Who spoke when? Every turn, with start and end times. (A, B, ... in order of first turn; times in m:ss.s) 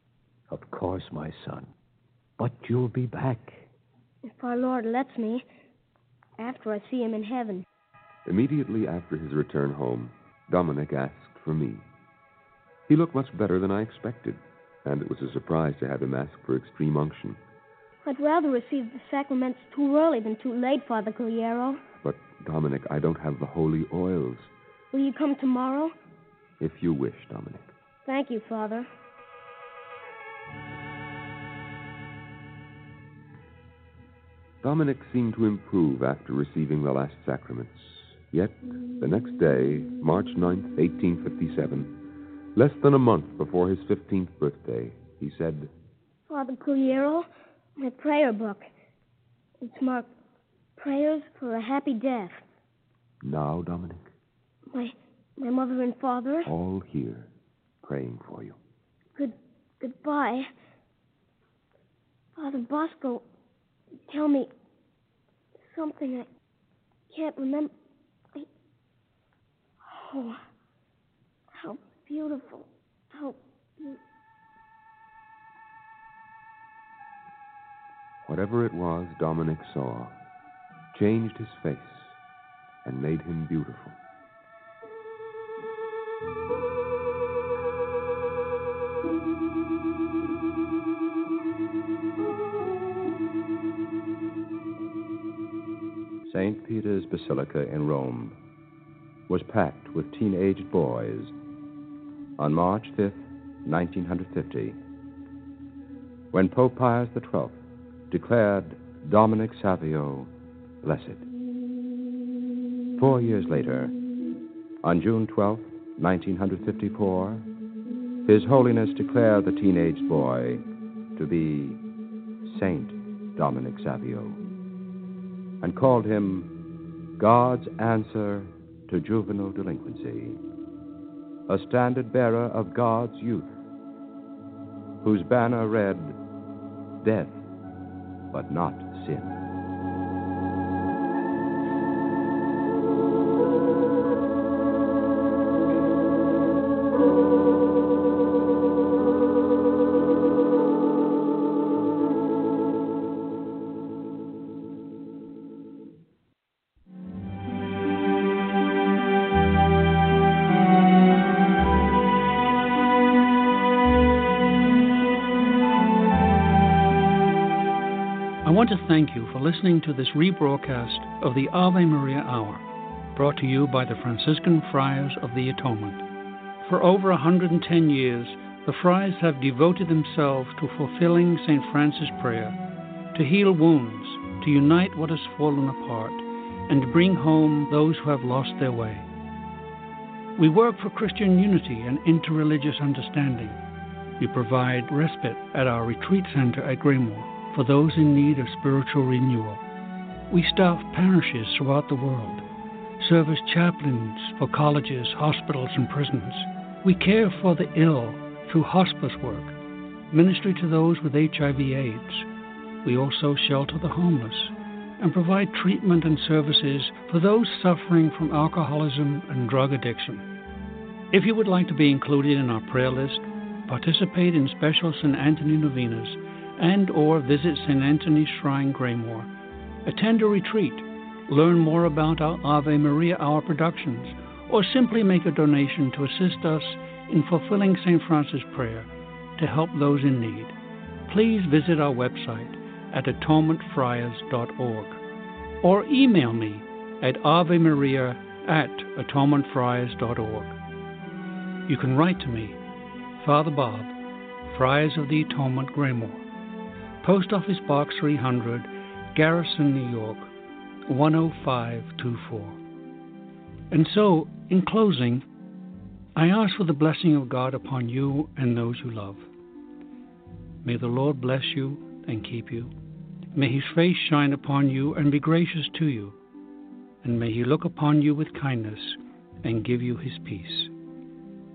0:00.5-0:01.7 A
0:02.4-0:03.7 A
0:04.3-0:05.4 B
0:06.4-0:07.6 B
0:08.2-0:11.8 C
0:12.9-0:17.4 C
0:18.0-0:21.8 B
0:22.0-0:24.5 C
0:24.9-0:25.9 B
0:26.6-0:27.7 C
0:28.0-0:28.9 B
0:34.6-0:41.9 C
0:42.5-0:45.7 C
0:46.3-0:47.3 B
0:47.8-0:48.7 B
0:49.6-0:50.1 B
0:50.8-0:52.4 B
0:53.2-0:54.1 C
0:54.7-0:56.5 B
0:56.4-0:57.3 C
0:57.8-0:58.6 C
0:59.2-1:00.5 B
1:02.4-1:03.2 B
1:04.1-1:04.5 B
1:05.6-1:06.3 B
1:07.1-1:07.7 B
1:09.9-1:10.4 B
1:11.6-1:14.0 B
1:18.2-1:20.1 C
1:20.9-1:22.1 C
1:22.8-1:24.0 C
1:36.2-1:38.4 D
1:39.3-1:41.3 D
1:42.4-1:44.8 D
1:46.3-1:47.6 D
1:48.1-1:50.3 D
1:50.8-1:51.2 D
1:53.0-1:54.0 D
1:54.8-1:57.5 D
1:58.2-2:00.6 D
2:01.2-2:01.8 D
2:02.4-2:04.4 D
2:05.6-2:06.5 D
2:07.2-2:10.4 D
2:11.5-2:13.5 D
2:15.0-2:16.2 D
2:17.0-2:17.4 D
2:18.3-2:19.4 D
2:48.4-2:52.6 E
2:53.1-2:56.0 E
2:56.6-3:02.6 E
3:03.1-3:09.0 E
3:10.4-3:13.6 E
3:14.2-3:19.6 E
3:20.3-3:22.4 E
3:23.0-3:29.5 E
3:30.1-3:32.3 E
3:32.8-3:40.2 E
3:41.1-3:49.3 E
3:49.8-4:00.5 E
4:01.1-4:05.0 E
4:05.6-4:10.6 E
4:11.7-4:12.6 E
4:13.2-4:13.9 E
4:14.4-4:16.2 E
4:17.0-4:20.3 E
4:20.9-4:22.6 E
4:23.7-4:25.2 E
4:26.2-4:29.2 E
4:30.6-4:32.7 E
4:33.3-4:36.1 E
4:37.0-4:40.7 E